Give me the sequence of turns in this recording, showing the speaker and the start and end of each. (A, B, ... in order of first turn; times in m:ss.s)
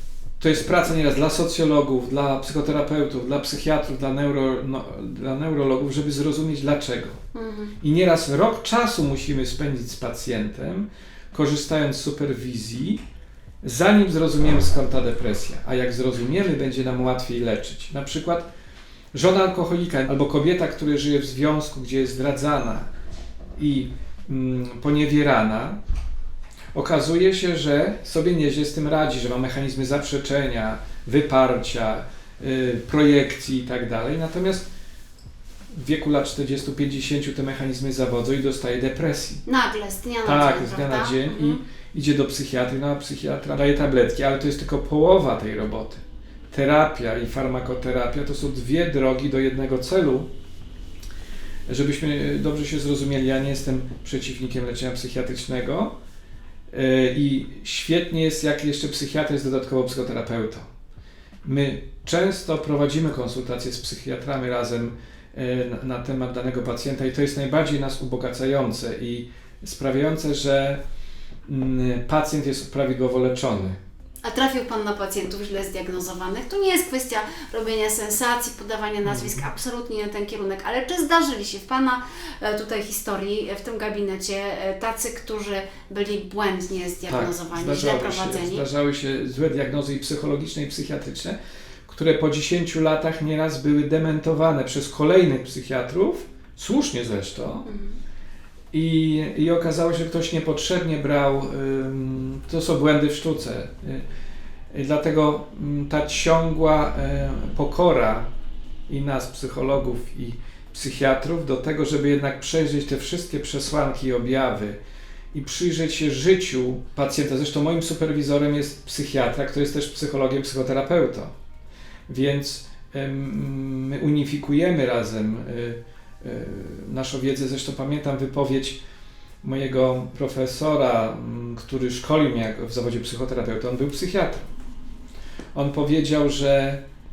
0:00.4-0:07.2 A
0:07.3-0:07.7 B
0:07.8-0:13.0 A
0:13.6-0:18.5 A
0:19.1-0:22.9 A
0:23.6-0:25.8 A
0:26.7-0:34.6 A
0:35.7-0:39.4 A
0:39.4-0:41.6 B
0:40.2-0:50.3 A
0:51.7-0:55.9 A
0:56.7-1:00.7 A
1:01.4-1:10.8 A
1:11.4-1:13.8 A
1:14.2-1:28.6 B
1:19.0-1:19.3 A
1:27.1-1:31.4 A
1:31.9-1:37.7 A
1:37.6-1:38.0 B
1:38.7-1:44.0 A
1:44.7-1:48.3 A
1:48.9-1:54.8 A
1:55.3-2:01.3 A
2:02.1-2:08.8 A
2:09.4-2:14.5 A
2:15.5-2:16.8 A